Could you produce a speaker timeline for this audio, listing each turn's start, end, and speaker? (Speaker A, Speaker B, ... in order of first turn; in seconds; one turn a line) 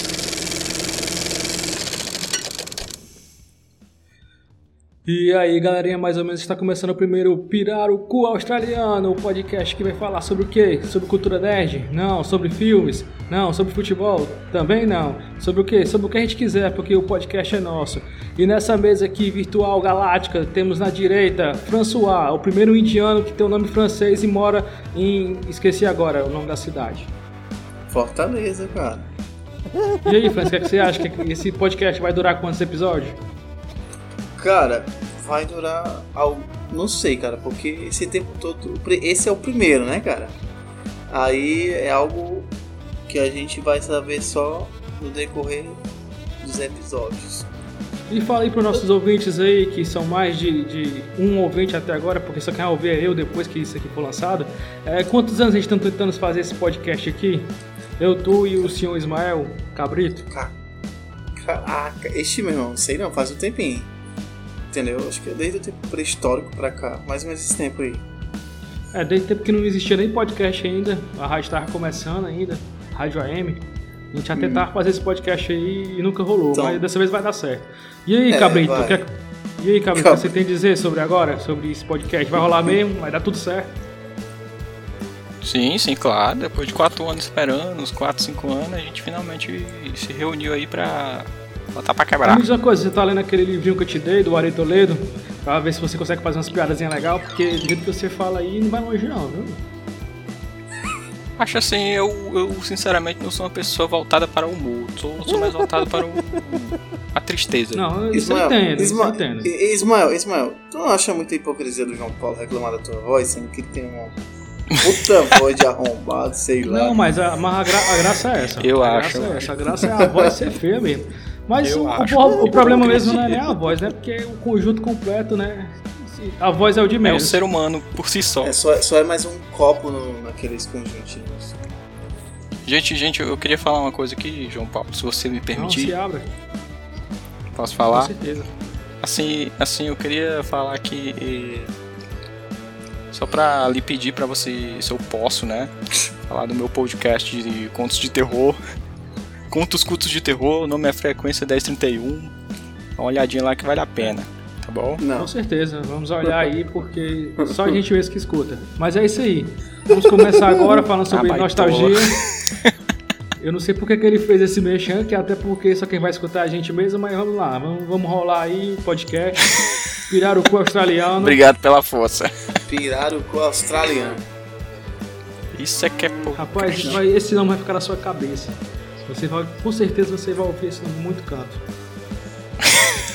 Speaker A: 5.1-27.1
Speaker B: 27.9-29.1
Speaker A: 30.0-33.2
Speaker B: 34.4-40.4
Speaker B: 41.1-42.5
Speaker B: 43.1-45.8
Speaker B: 46.4-47.5
Speaker A: 48.1-60.3
Speaker B: 61.4-63.9
Speaker B: 64.7-68.0
Speaker A: 68.9-83.7
Speaker B: 74.3-74.7
Speaker B: 76.5-76.8
Speaker B: 78.3-79.0
Speaker B: 79.9-80.3
Speaker C: 85.4-92.5
Speaker A: 92.2-99.6
Speaker C: 101.4-107.9
Speaker A: 107.7-109.5
Speaker B: 108.1-114.2
Speaker B: 114.8-117.0
Speaker A: 116.7-127.4
Speaker C: 118.6-119.8
Speaker C: 121.6-123.5
Speaker C: 127.0-128.6
Speaker B: 128.4-131.6
Speaker C: 132.7-135.9
Speaker A: 135.5-136.3
Speaker C: 137.5-138.1
Speaker A: 137.9-138.5
Speaker C: 139.0-141.7
Speaker C: 143.1-145.7
Speaker C: 146.3-148.6
Speaker C: 149.5-152.3
Speaker C: 153.0-155.0
Speaker B: 155.0-155.3
Speaker A: 155.2-162.2
Speaker C: 161.1-162.7
Speaker A: 163.4-169.5
Speaker A: 170.1-171.4
Speaker C: 171.2-172.6
Speaker B: 172.7-174.2
Speaker C: 175.5-177.0
Speaker A: 176.4-181.6